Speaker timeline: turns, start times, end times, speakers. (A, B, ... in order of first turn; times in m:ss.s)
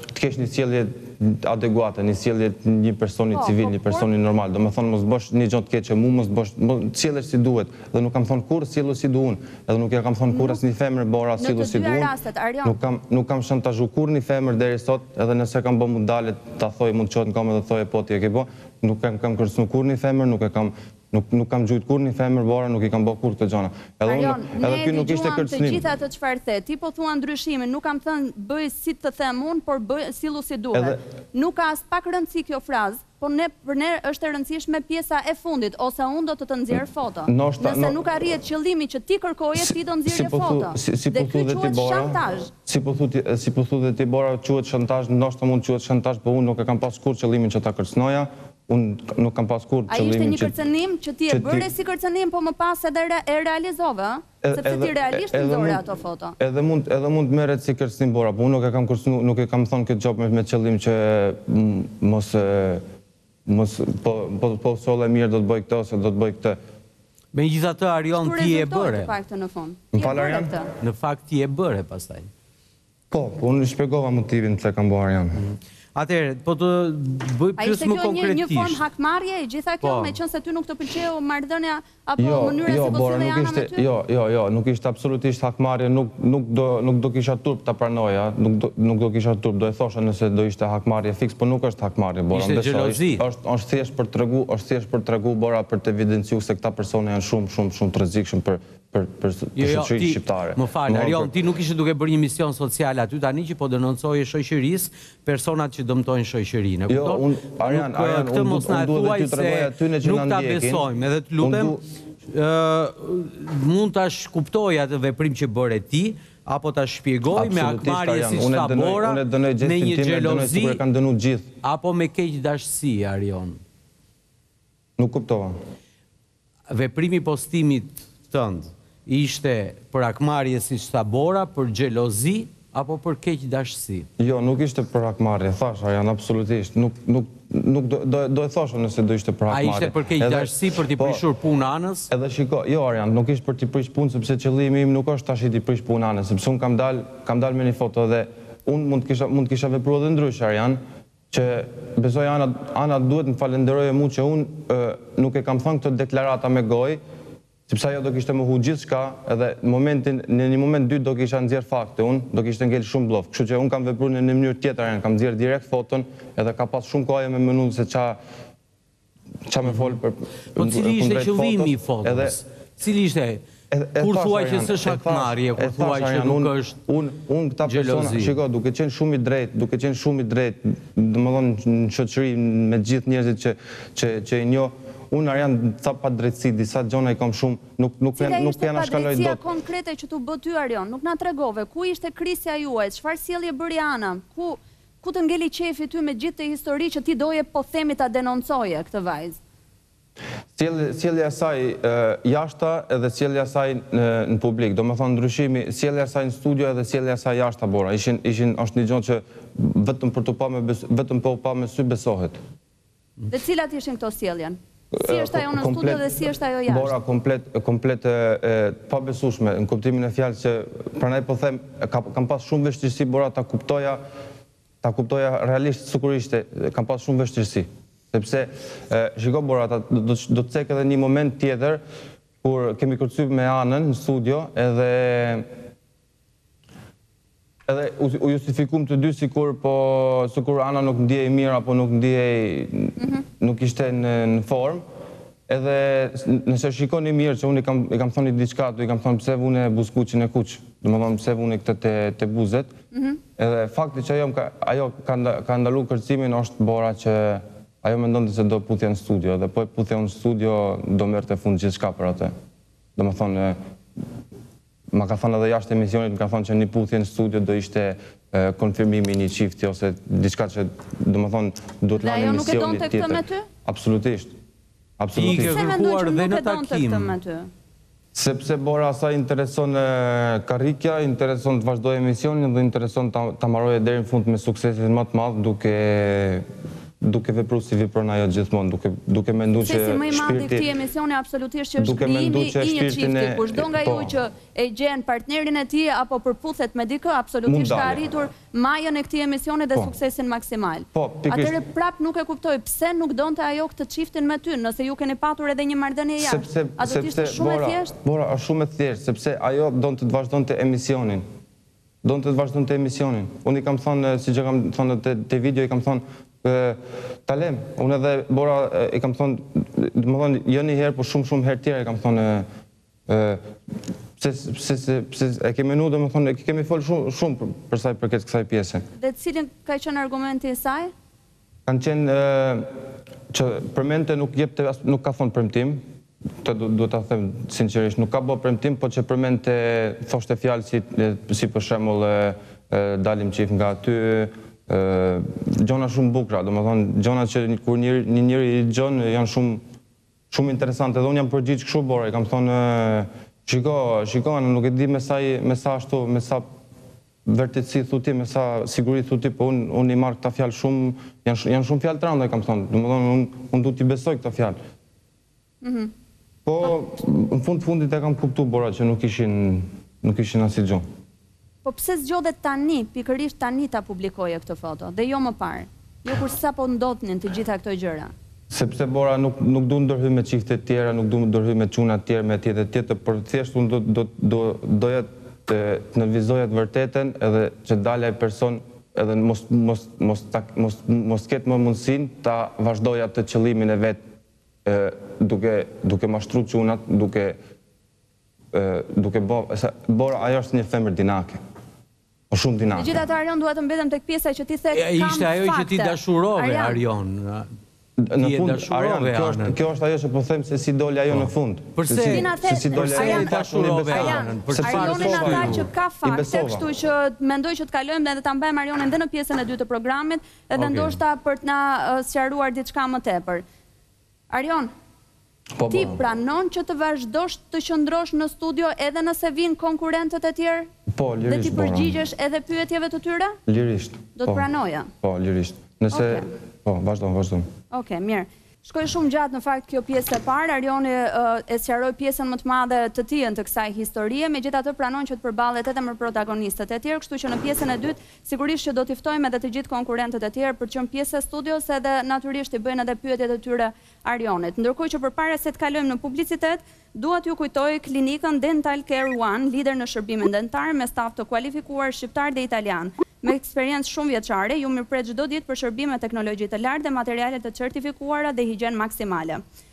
0:00.1-0:12.1 A
0:03.3-0:04.1 B
0:10.3-0:10.6 B
0:11.4-0:12.8 B
0:12.6-0:25.8 A
0:24.0-0:42.5 B
0:30.7-0:31.0 A
0:37.3-0:38.0 A
0:39.6-0:50.5 A
0:49.9-0:56.4 B
0:51.3-0:51.7 A
0:54.4-0:55.8 A
0:56.4-1:02.8 A
1:03.4-1:06.6 A
1:07.3-1:09.1 C
1:08.2-1:10.7 B
1:09.9-1:10.6 A
1:10.8-1:12.3 C
1:13.1-1:15.4 A
1:15.4-1:18.8 C
1:17.6-1:23.9 B
1:19.8-1:20.2 C
1:22.2-1:41.3 A
1:32.3-1:33.2 C
1:39.6-2:00.8 C
1:46.9-1:50.8 A
1:51.4-1:51.8 A
1:57.3-2:01.5 A
2:01.6-2:03.6 C
2:05.0-2:05.5 A
2:06.7-2:14.1 C
2:14.2-2:21.2 A
2:19.5-2:22.1 C
2:22.1-2:30.8 A
2:31.3-2:37.0 A
2:37.7-2:48.2 A
2:49.5-2:52.4 A
2:50.5-2:53.4 C
2:53.7-3:09.4 A
2:54.0-2:56.8 C
2:57.6-2:58.4 C
3:08.2-3:19.4 B
3:20.6-3:32.4 A
3:33.3-3:36.9 B
3:34.9-3:36.1 A
3:36.7-3:44.0 A
3:44.8-3:51.8 A
3:52.4-3:55.5 A
3:57.7-4:04.8 A
4:03.0-4:03.2 B
4:05.5-4:12.7 A
4:12.9-4:13.2 B
4:13.4-4:22.3 A
4:23.0-4:23.6 A
4:24.9-4:34.3 A
4:32.0-4:33.5 B
4:35.0-4:35.6 A
4:35.1-4:37.2 C
4:35.3-4:37.5 B
4:38.1-4:46.4 A
4:47.0-4:50.6 A
4:49.6-5:07.9 B
4:51.8-4:54.1 A
4:57.4-4:58.0 A
5:00.9-5:01.6 A
5:06.2-5:11.2 A
5:12.0-5:22.4 A
5:23.1-5:23.4 A
5:24.2-5:28.8 A
5:29.0-5:30.9 B
5:31.6-5:32.6 A
5:33.3-5:35.8 A
5:36.4-5:49.6 A
5:50.3-5:56.5 A
5:57.2-6:04.6 A
6:05.6-6:05.9 B
6:06.4-6:10.8 A
6:11.6-6:18.1 B
6:18.5-6:34.0 A
6:34.6-6:37.4 A
6:38.5-6:41.4 A
6:42.3-6:42.9 A
6:42.7-6:46.8 B
6:44.7-6:47.5 C
6:48.0-6:56.7 A
6:48.2-6:49.6 C
6:51.1-6:55.6 C
6:52.1-7:03.4 B
7:00.5-7:01.0 C
7:04.3-7:04.7 B
7:05.6-7:06.0 A
7:05.7-7:10.7 B
7:10.9-7:11.9 A
7:11.2-7:13.4 B
7:13.5-7:14.4 A
7:14.2-7:14.9 B
7:15.0-7:17.4 A
7:15.9-7:16.2 B
7:17.7-7:49.4 B